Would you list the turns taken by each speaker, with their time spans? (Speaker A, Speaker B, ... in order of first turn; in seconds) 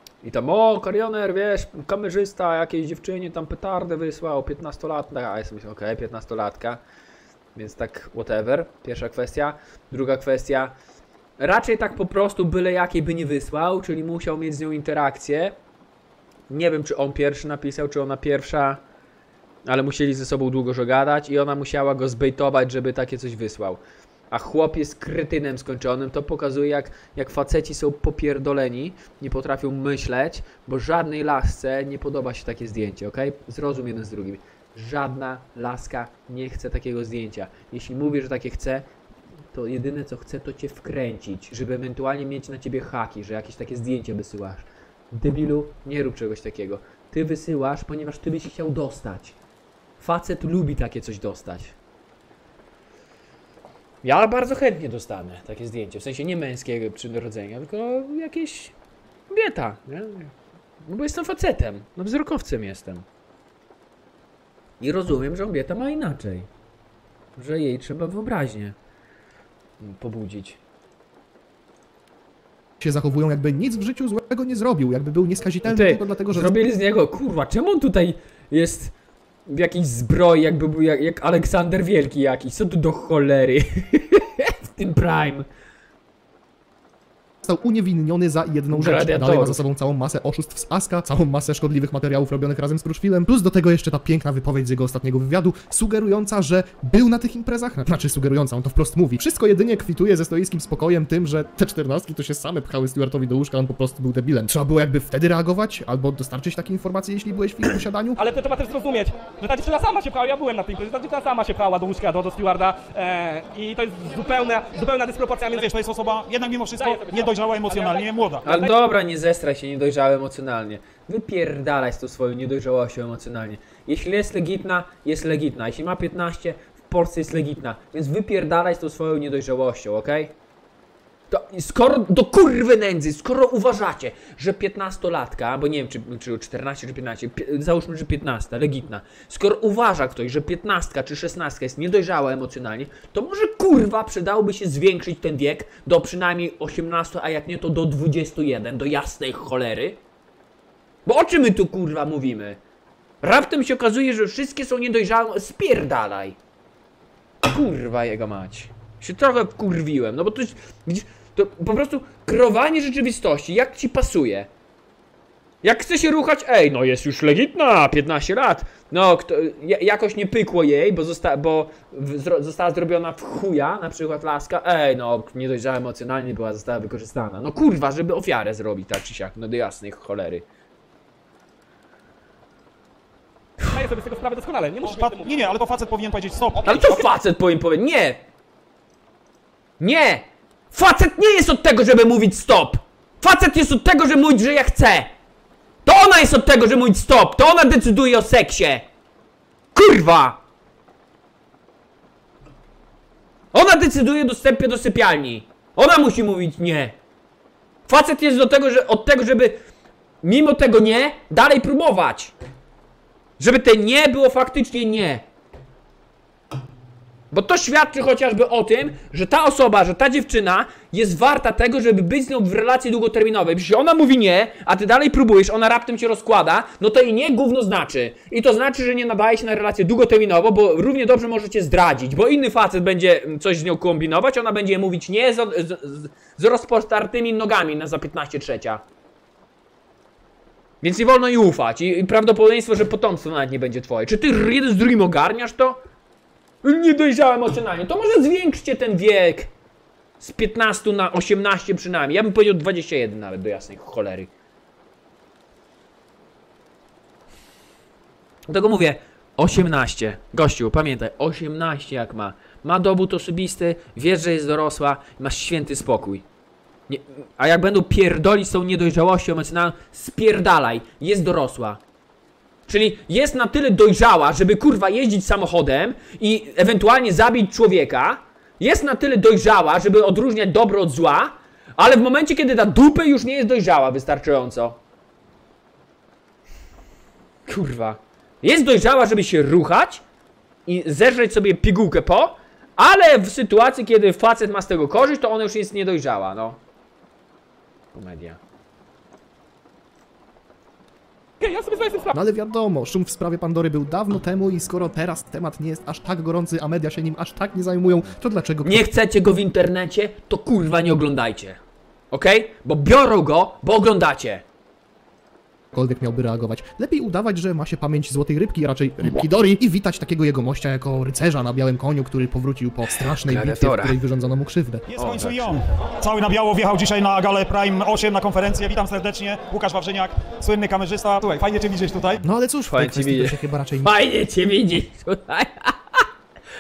Speaker A: 0.2-6.8, 7.6-10.8, 11.4-15.6, 16.5-18.8, 19.7-23.8, 24.3-38.9, 39.5-49.4, 50.0-51.8, 54.0-58.8, 59.3-63.0, 64.8-66.5, 67.4-68.8, 69.8-70.6, 75.7-78.9, 79.5-85.5, 88.7-89.6, 118.4-130.3, 131.3-150.0, 151.1-152.6, 153.2-156.4, 157.4-164.5, 165.6-180.5, 186.6-188.2, 189.8-195.1, 195.8-198.9, 199.8-200.4, 203.5-207.0, 207.9-209.6, 210.2-212.3, 213.4-215.2, 217.3-238.8, 240.8-245.8, 246.6-249.5, 250.2-254.3, 258.5-266.2, 266.9-271.8, 272.7-284.8, 287.5-290.0, 290.7-296.6, 297.9-298.4, 308.6-311.6, 312.1-314.4, 322.9-324.0, 325.0-325.6, 332.7-336.1
Speaker B: 72.8-76.6, 87.4-108.2, 302.1-308.9, 315.7-324.9, 332.2-333.9
Speaker C: 108.2-115.7, 116.8-118.7, 183.7-185.3, 301.4-302.1
Speaker D: 115.5-118.5, 184.8-187.1, 324.9-332.2